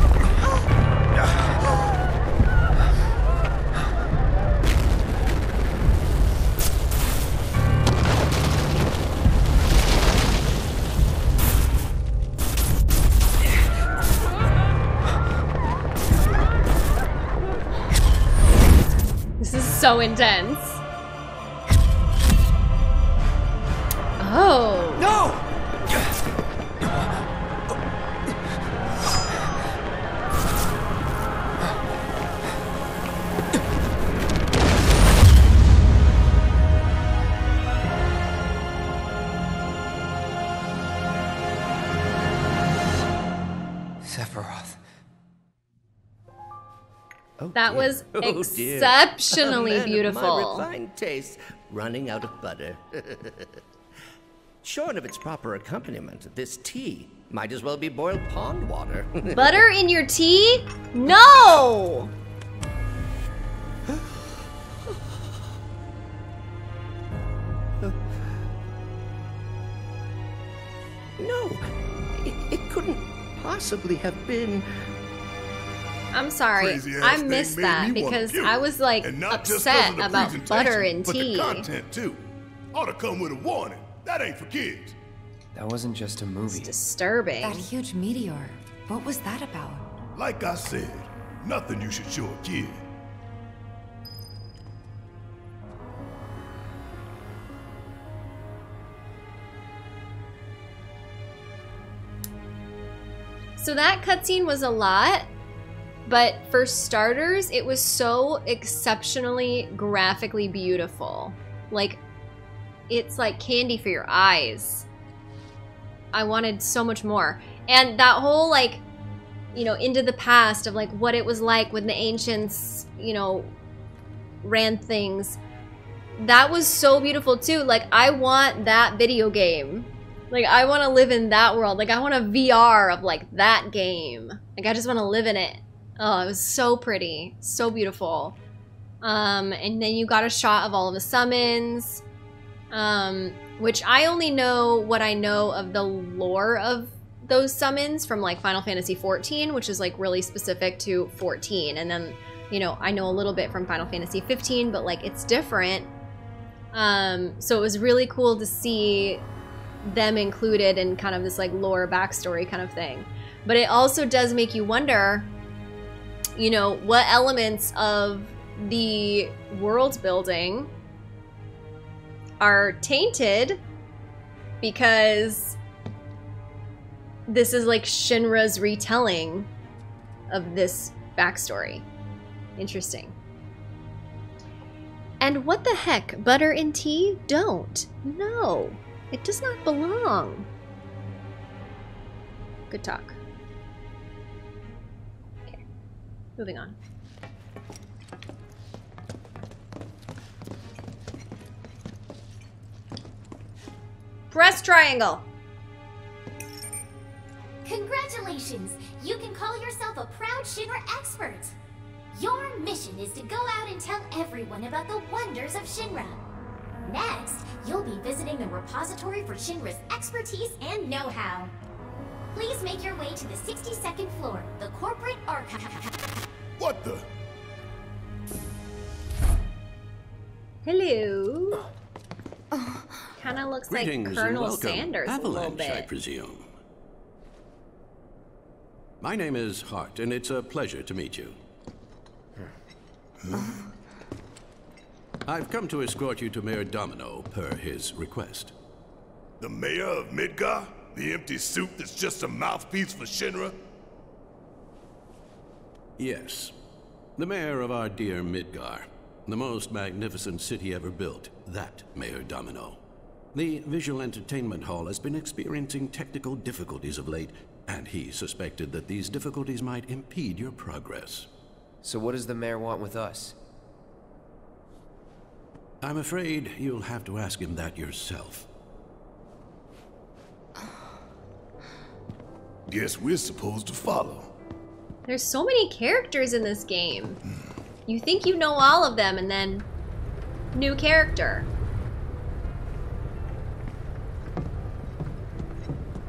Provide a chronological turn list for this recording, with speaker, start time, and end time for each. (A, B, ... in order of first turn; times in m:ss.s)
0:19.4-0:20.8 A
0:24.2-0:25.1 A
0:44.1-0:44.6 B
0:47.4-0:53.6 C
0:47.5-0:50.6 A
0:54.6-0:59.6 C
0:59.4-1:02.1 A
1:11.2-1:11.6 C
1:12.2-1:14.6 C
1:16.1-1:21.6 A
1:16.6-1:25.0 D
1:25.5-1:26.7 B
1:26.5-1:27.7 A
1:27.4-1:29.8 E
1:30.1-1:32.8 D
1:43.6-1:45.3 A
1:46.0-1:52.0 A
1:52.9-1:54.8 A
1:56.1-1:58.8 A
1:59.5-2:03.5 A
2:04.4-2:05.4 A
2:06.2-2:18.4 A
2:19.0-2:22.0 A
2:22.7-2:35.9 A
2:36.7-2:39.2 A
2:39.8-2:45.3 A
2:46.4-2:50.7 A
2:52.4-2:53.6 A
2:54.6-2:55.6 A
2:57.3-2:59.5 A
3:00.3-3:01.8 A
3:02.6-3:03.2 A
3:05.2-3:10.5 A
3:12.7-3:13.2 A
3:16.4-3:16.8 A
3:24.3-3:25.2 A
3:27.6-3:31.6 F
3:32.1-3:36.2 F
3:36.8-3:41.5 F
3:42.3-3:45.9 F
3:46.6-3:47.0 D
3:50.6-3:51.6 A
3:53.2-3:55.9 A
3:53.7-3:56.5 G
3:59.0-4:01.4 G
4:03.2-4:03.6 D
4:05.2-4:08.5 G
4:09.4-4:13.6 D
4:16.0-4:16.5 G
4:17.2-4:22.8 G
4:23.3-4:31.3 G
4:31.8-4:33.4 B
4:35.8-4:38.5 G
4:42.7-4:44.3 D
4:45.1-4:47.2 A
4:47.9-4:49.7 A
4:50.5-4:51.5 A